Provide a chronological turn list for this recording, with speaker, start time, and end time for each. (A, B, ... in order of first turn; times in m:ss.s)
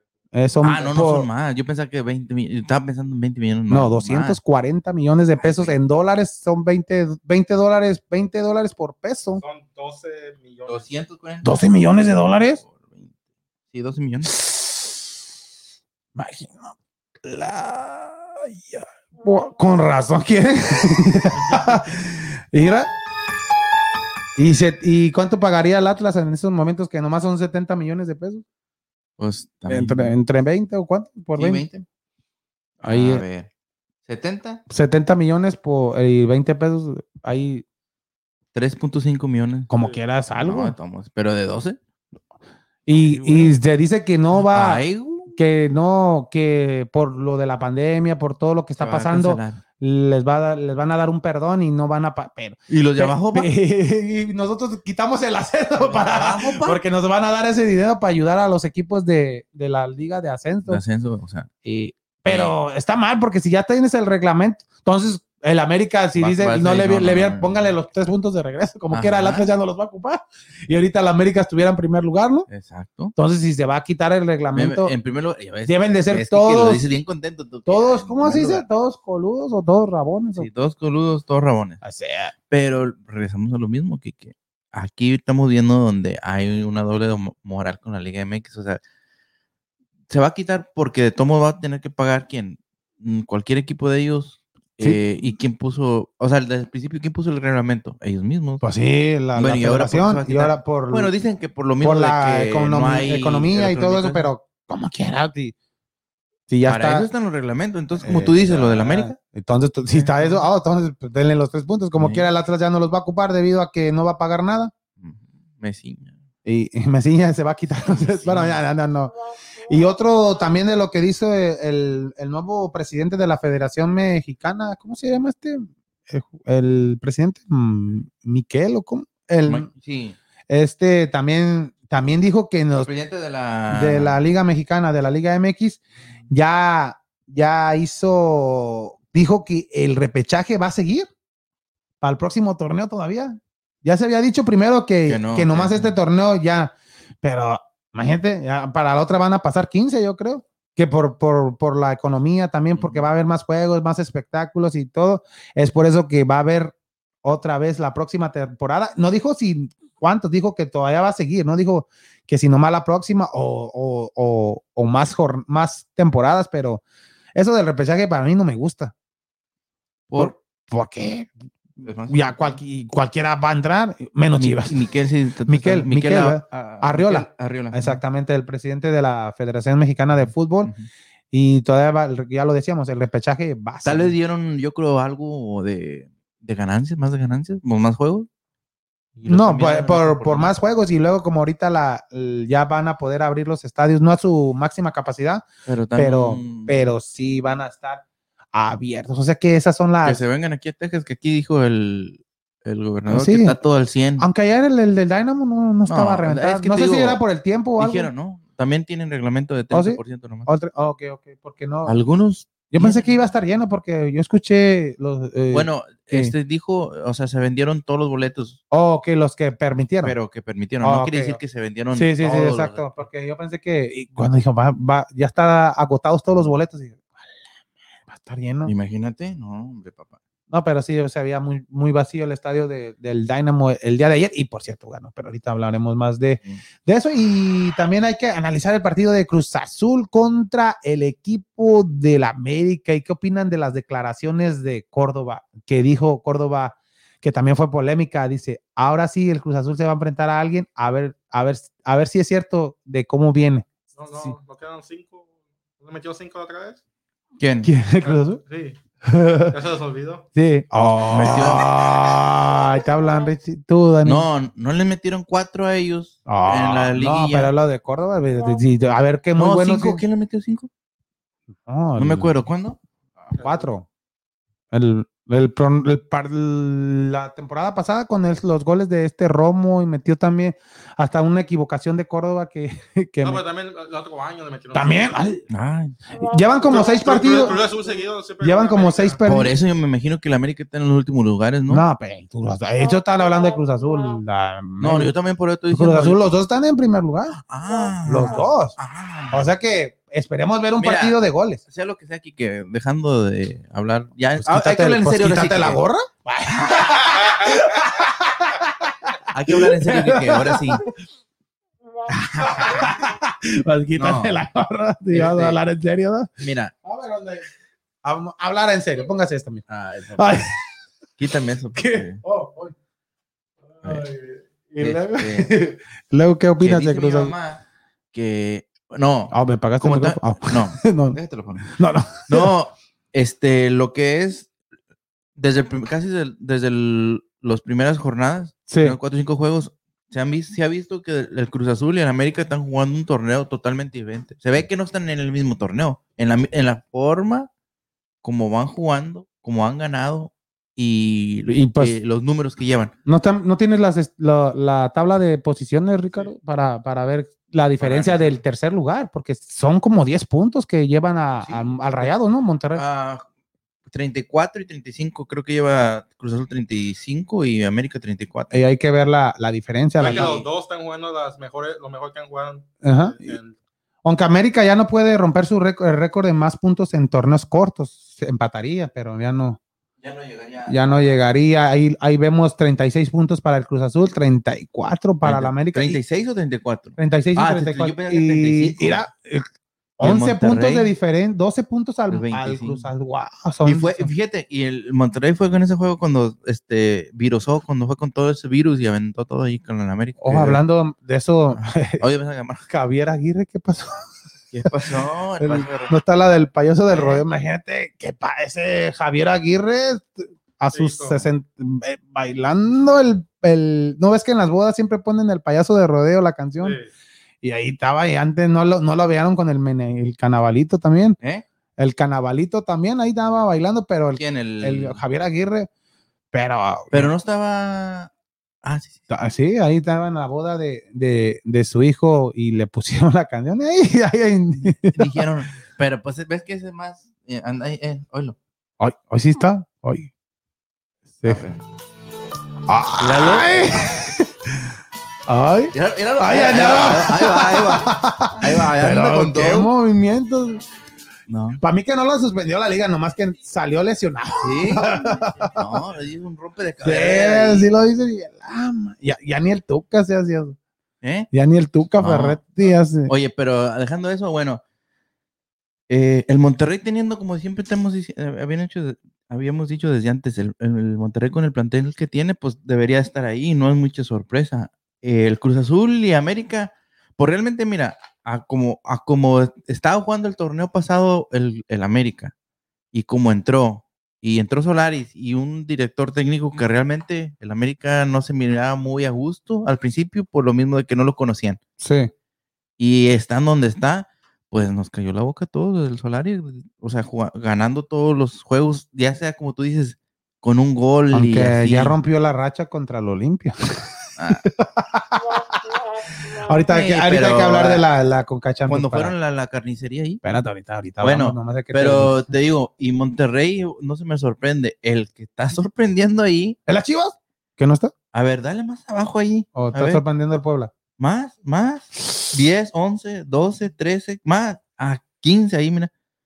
0:00.3-0:01.3 A
0:00.6-0:04.4 B
0:03.7-0:09.4 A
0:05.4-0:05.8 B
0:09.4-0:10.9 C
0:10.6-0:11.5 B
0:11.4-0:12.6 A
0:12.3-0:13.1 B
0:13.7-0:14.3 B
0:14.4-0:14.7 A
0:16.2-0:22.9 A
0:24.4-0:28.4 A
0:29.2-0:30.2 B
0:29.7-0:31.7 A
0:31.3-0:31.8 B
0:32.8-0:33.2 A
0:32.9-0:33.5 B
0:34.0-0:34.6 B
0:34.7-0:37.6 A
0:38.5-0:39.7 B
0:39.7-0:40.7 A
0:40.4-0:41.8 B
0:42.8-1:00.8 A
0:42.9-0:43.6 B
0:44.3-0:45.4 B
0:48.8-0:49.6 B
0:52.7-0:53.5 B
0:55.7-0:56.8 B
1:00.6-1:01.5 B
1:01.6-1:12.5 A
1:02.2-1:02.6 B
1:06.2-1:07.8 B
1:08.9-1:09.5 B
1:12.5-1:13.1 B
1:13.1-1:14.9 A
1:14.5-1:18.7 B
1:15.7-1:16.8 A
1:17.6-1:20.5 A
1:20.4-1:21.8 B
1:21.8-1:22.3 A
1:22.5-1:28.8 B
1:30.1-1:38.6 B
1:34.8-1:35.3 A
1:38.6-1:41.1 A
1:39.3-1:44.3 B
1:41.8-1:45.5 A
1:46.5-1:47.1 A
1:46.6-1:49.2 B
1:48.0-1:54.7 A
1:49.9-1:50.5 B
1:52.0-1:52.3 B
1:55.0-1:56.2 B
1:56.4-1:59.1 A
1:57.8-1:58.6 B
1:59.6-2:09.7 A
2:09.4-2:10.2 B
2:10.5-2:12.9 A
2:12.8-2:14.2 B
2:13.7-2:21.1 A
2:22.0-2:46.8 A
2:25.1-2:26.0 B
2:32.8-2:33.0 B
2:47.4-2:48.9 A
2:50.1-2:50.3 B
2:50.2-2:51.3 A
2:51.8-2:52.6 B
2:52.1-2:54.8 A
2:54.4-2:58.0 B
2:55.4-3:00.7 A
3:00.2-3:00.9 B
3:01.3-3:04.1 A
3:03.8-3:08.3 B
3:09.2-3:10.6 B
3:09.3-3:20.2 A
3:15.6-3:16.8 B
3:20.0-3:24.2 B
3:23.1-3:23.6 A
3:24.2-3:28.1 A
3:25.9-3:27.2 B
3:27.8-3:30.5 B
3:29.7-3:32.0 A
3:31.8-3:33.0 B
3:32.7-3:36.3 A
3:35.5-3:38.6 B
3:38.7-3:40.2 A
3:40.0-3:42.8 B
3:40.8-3:41.4 A
3:41.9-3:47.2 A
3:48.1-3:48.7 A
3:48.6-3:50.2 B
3:50.5-4:14.4 A
4:14.0-4:15.3 C
4:15.8-4:16.8 C
4:17.4-4:17.7 B
4:17.6-4:18.4 A
4:18.0-4:18.8 C
4:19.0-4:19.5 A
4:19.5-4:20.3 C
4:20.3-4:24.3 A
4:21.0-4:21.7 B
4:24.0-4:27.5 B
4:26.2-4:30.0 A
4:29.4-4:30.7 B
4:31.6-4:32.3 A
4:32.0-4:33.3 B
4:33.3-4:33.8 A
4:33.4-4:33.7 C
4:34.7-4:43.4 A
4:43.2-4:45.1 C
4:44.7-4:45.4 A
4:45.5-4:46.0 B
4:46.2-4:47.6 A
4:46.7-4:49.2 C
4:48.4-4:49.6 A
4:49.2-4:51.8 B
4:51.7-4:55.1 A
4:54.8-4:56.3 B
4:55.7-4:57.4 A
4:57.4-4:59.5 B
4:58.0-4:58.8 A
4:59.3-5:01.6 A
5:00.8-5:01.2 B
5:01.7-5:05.8 B
5:04.4-5:10.9 A
5:09.3-5:10.8 B
5:12.1-5:16.3 A
5:12.4-5:12.8 B
5:14.0-5:14.4 B
5:15.1-5:15.6 B
5:16.4-5:16.7 B
5:16.8-5:17.5 A
5:18.0-5:20.7 A
5:19.7-5:20.2 B
5:21.2-5:22.2 B
5:21.7-5:22.7 A
5:23.7-5:27.3 A
5:24.8-5:25.5 B
5:26.6-5:27.6 B
5:28.1-5:31.7 B
5:29.3-5:32.5 A
5:32.3-5:34.5 B
5:35.4-5:47.5 B
5:38.7-5:39.0 A
5:48.2-5:52.9 B
5:51.5-5:52.0 A
5:53.0-6:02.8 A
5:57.8-5:58.4 B
6:01.4-6:02.1 B
6:02.7-6:03.2 B
6:03.9-6:08.5 B
6:08.5-6:10.3 A
6:10.0-6:13.6 C
6:10.0-6:10.5 B
6:12.8-6:13.4 A
6:14.0-6:19.6 A
6:20.0-6:20.8 B
6:20.6-6:26.0 A
6:25.2-6:29.1 B
6:27.0-6:29.4 A
6:30.0-6:34.1 A
6:30.0-6:30.9 B
6:32.1-6:32.9 B
6:33.6-6:40.6 B
6:40.2-6:42.0 A
6:41.5-6:42.6 B
6:42.7-6:44.0 A
6:44.5-6:46.0 B
6:44.6-6:56.8 A
6:46.9-6:47.2 B
6:50.7-6:51.3 C
6:56.6-6:56.9 C
6:57.4-7:01.2 A
7:01.8-7:05.7 A
7:04.2-7:05.0 B
7:06.3-7:07.1 A
7:06.9-7:08.1 B
7:08.6-7:08.9 B
7:09.1-7:15.2 A
7:14.9-7:18.4 B
7:18.8-7:20.1 A
7:21.2-7:21.4 A
7:21.2-7:21.6 B
7:22.7-7:24.6 A
7:23.0-7:23.5 B
7:25.3-7:30.6 A
7:25.7-7:29.7 B
7:31.3-7:31.6 B
7:31.6-7:35.5 A
7:34.4-7:37.7 B
7:36.8-7:40.6 A
7:41.0-7:41.3 B
7:41.3-7:43.1 A
7:42.0-7:42.4 B
7:43.1-7:44.6 B
7:45.9-8:02.3 B
8:02.9-8:11.6 B
8:11.8-8:12.1 A
8:12.8-8:22.0 B
8:21.1-8:25.8 A
8:24.2-8:24.4 B
8:26.3-8:29.1 A
8:26.7-8:27.9 B
8:28.7-8:30.2 B
8:30.2-8:32.3 A
8:31.0-8:36.6 B
8:36.7-8:37.9 A
8:38.1-8:40.0 B
8:39.6-8:40.7 A
8:41.0-8:45.9 B